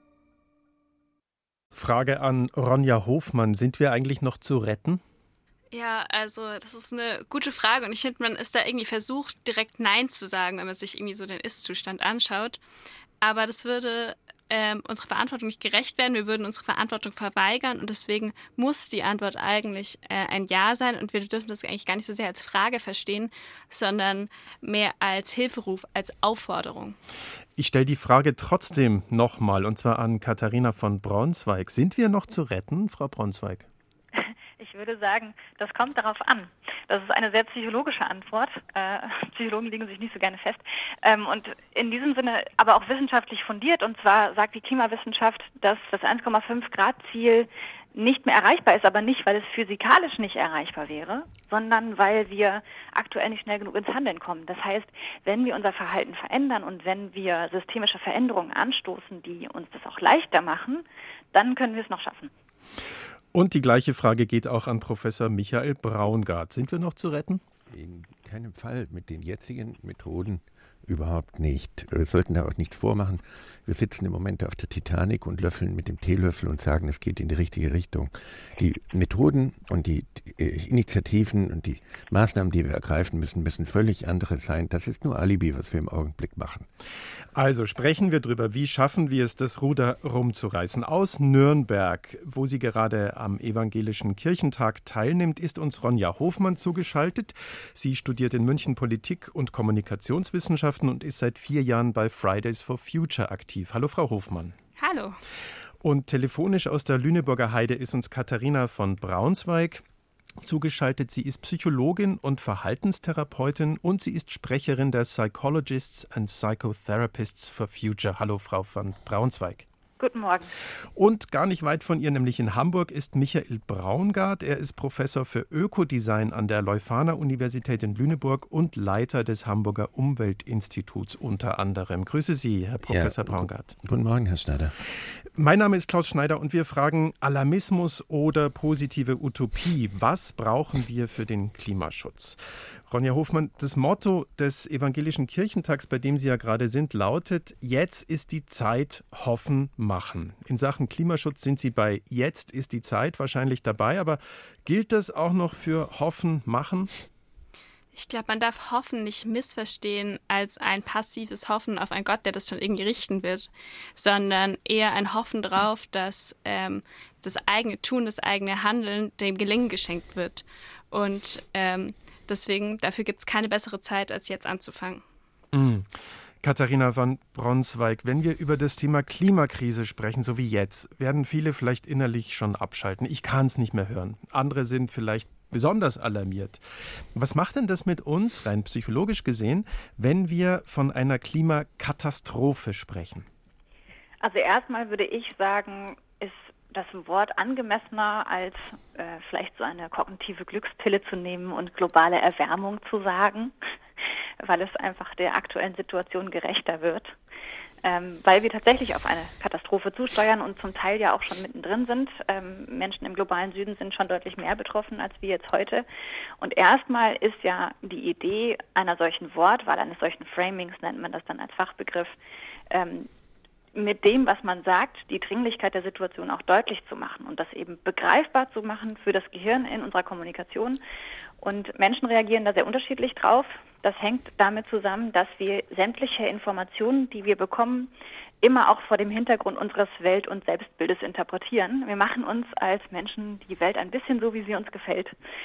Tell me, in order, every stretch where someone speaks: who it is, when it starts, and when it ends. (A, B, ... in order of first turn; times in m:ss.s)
0:01.7-0:05.0 A
0:05.7-0:12.6 B
0:13.2-0:27.0 B
0:27.6-0:33.6 A
0:34.1-1:02.3 C
1:03.3-1:07.4 A
1:07.7-1:26.6 D
1:27.3-1:44.5 A
1:44.8-1:45.2 B
1:45.8-1:49.8 A
1:50.4-1:59.6 A
2:00.0-2:00.5 C
2:01.0-2:13.7 A
2:12.8-2:14.7 D
2:15.4-2:36.9 A
2:37.9-2:55.0 B
2:55.5-2:55.9 A
2:56.4-3:06.6 A
3:07.1-3:13.3 A
3:14.2-3:23.5 C
3:24.4-3:27.2 C
3:27.8-3:35.8 C
3:36.4-3:42.1 C
3:42.7-3:43.1 C
3:43.7-3:50.8 C
3:51.4-3:57.9 C
3:58.4-4:05.1 C